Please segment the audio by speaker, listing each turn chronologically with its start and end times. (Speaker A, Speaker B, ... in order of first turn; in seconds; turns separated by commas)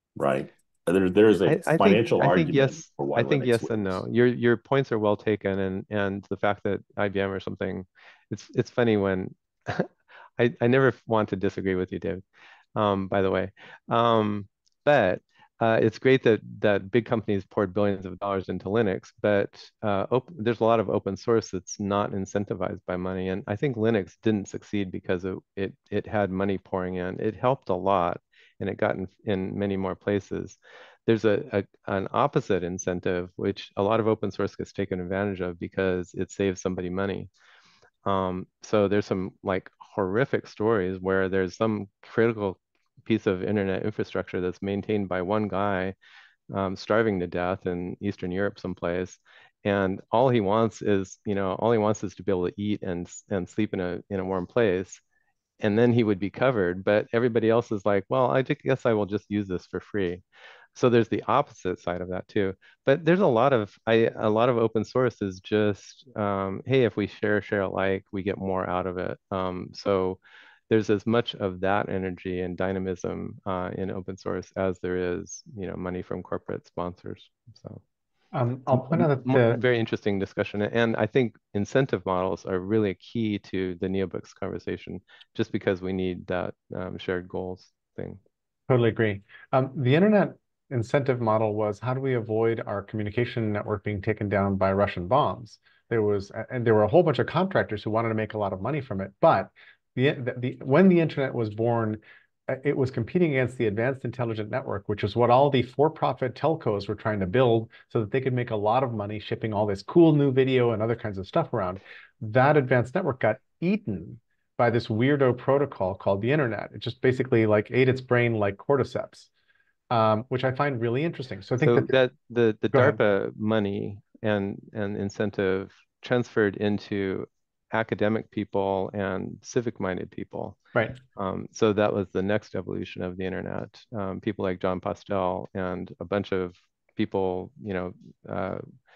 Speaker A: 0.2-4.0, Speaker B: 1.5-12.2, Speaker B: 12.8-37.3, Speaker B: 38.0-46.0, Speaker B: 46.5-55.0, Speaker B: 55.6-60.2, Speaker B: 60.8-77.8, Speaker C: 78.3-79.6, Speaker B: 78.7-88.2, Speaker C: 88.7-119.3, Speaker C: 119.9-122.0, Speaker B: 121.6-130.6, Speaker C: 122.7-123.0, Speaker C: 130.8-131.0, Speaker B: 131.2-138.7